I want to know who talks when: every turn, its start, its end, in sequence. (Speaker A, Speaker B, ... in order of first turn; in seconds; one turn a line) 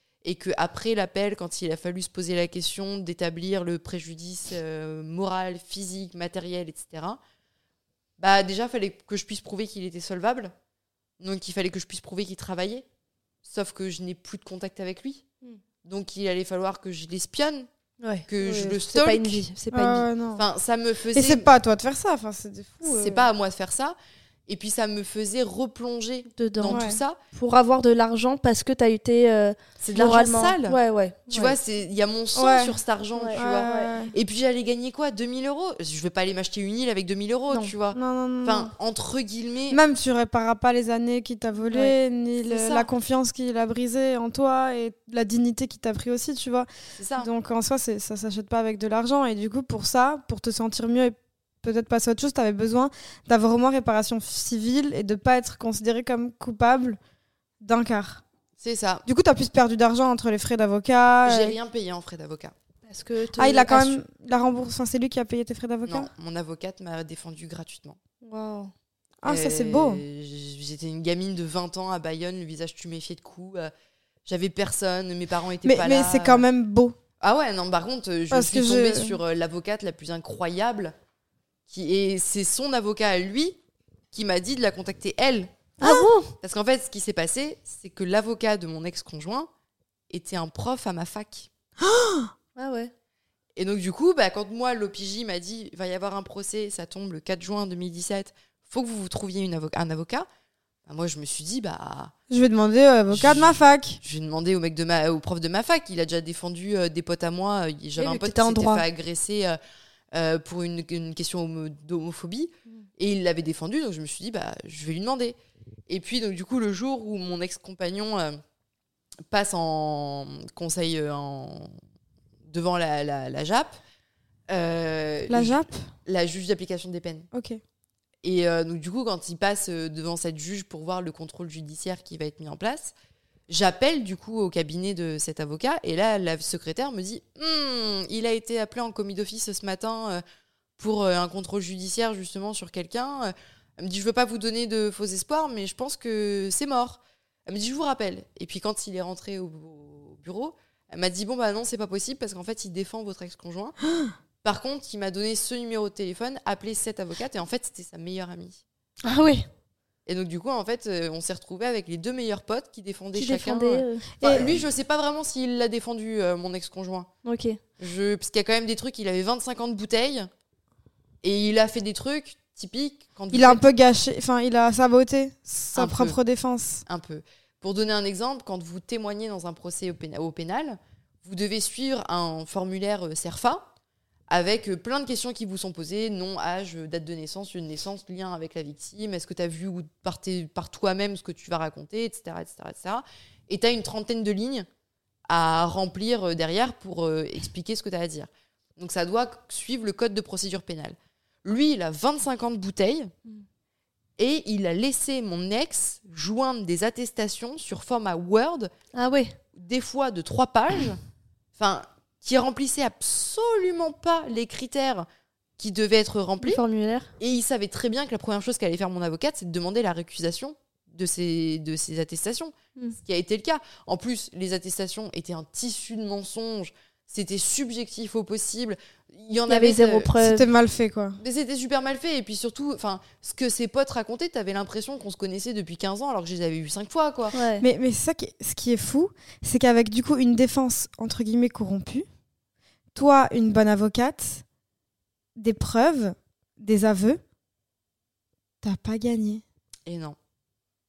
Speaker A: 0.2-7.2
Speaker A: 8.2-10.5
Speaker A: 11.2-12.8
Speaker A: 13.4-15.2
Speaker A: 15.8-17.7
Speaker B: 18.0-20.1
Speaker A: 18.3-19.4
Speaker C: 18.4-18.8
Speaker C: 19.7-20.4
Speaker A: 20.4-21.5
Speaker C: 21.1-23.3
Speaker A: 22.8-23.9
Speaker A: 24.5-27.2
Speaker B: 26.3-26.8
Speaker C: 26.7-27.0
Speaker B: 27.3-31.6
Speaker A: 29.8-30.8
Speaker A: 31.3-39.8
Speaker C: 32.3-32.8
Speaker B: 33.1-33.9
Speaker C: 33.3-34.1
Speaker C: 37.9-38.7
Speaker C: 39.7-57.0
Speaker A: 42.4-42.9
Speaker A: 47.0-47.3
Speaker C: 57.6-58.2
Speaker A: 58.6-59.0
Speaker C: 59.0-61.5
Speaker A: 61.2-62.5
Speaker B: 62.9-64.0
Speaker C: 63.4-66.1
Speaker A: 65.8-68.0
Speaker B: 68.2-68.7
Speaker C: 69.2-70.0
Speaker A: 69.2-73.7
Speaker A: 74.2-76.4
Speaker C: 75.6-77.0
Speaker A: 77.2-80.9
Speaker C: 78.3-79.2
Speaker A: 81.7-83.5
Speaker A: 84.1-85.5
Speaker C: 85.8-86.1
Speaker B: 85.8-86.3
Speaker A: 86.4-89.5
Speaker A: 90.1-91.5
Speaker C: 91.8-92.3
Speaker B: 92.5-92.9
Speaker A: 93.6-100.2
Speaker A: 100.9-102.1
Speaker C: 102.3-104.0
Speaker A: 103.1-109.6
Speaker B: 108.0-108.8
Speaker A: 110.1-115.3
Speaker A: 115.9-118.4
Speaker A: 119.3-121.7
Speaker A: 122.5-123.8
Speaker A: 124.5-127.3
Speaker C: 125.3-125.9
Speaker C: 127.3-127.6
Speaker A: 128.2-132.9
Speaker A: 133.5-140.2
Speaker A: 140.8-153.8
Speaker A: 154.4-158.6
Speaker B: 159.0-159.5
Speaker A: 160.1-167.1
Speaker B: 163.1-164.1
Speaker C: 164.2-164.6
Speaker B: 167.2-167.6
Speaker A: 167.8-170.3
Speaker A: 171.2-173.6
Speaker C: 173.3-176.8
Speaker A: 175.7-176.2
Speaker A: 176.9-183.6
Speaker A: 184.3-194.7
Speaker A: 195.3-203.1
Speaker A: 204.2-208.7
Speaker B: 208.9-209.4
Speaker A: 209.5-211.0
Speaker A: 211.6-215.1
Speaker A: 215.6-216.6
Speaker B: 216.4-217.1
Speaker A: 217.2-222.5
Speaker A: 223.0-230.3
Speaker B: 229.5-230.5
Speaker C: 230.2-231.2
Speaker A: 231.2-237.3
Speaker B: 237.3-237.6
Speaker C: 237.6-242.1
Speaker C: 242.9-244.4
Speaker C: 245.3-247.2
Speaker C: 248.6-249.4
Speaker A: 249.8-250.2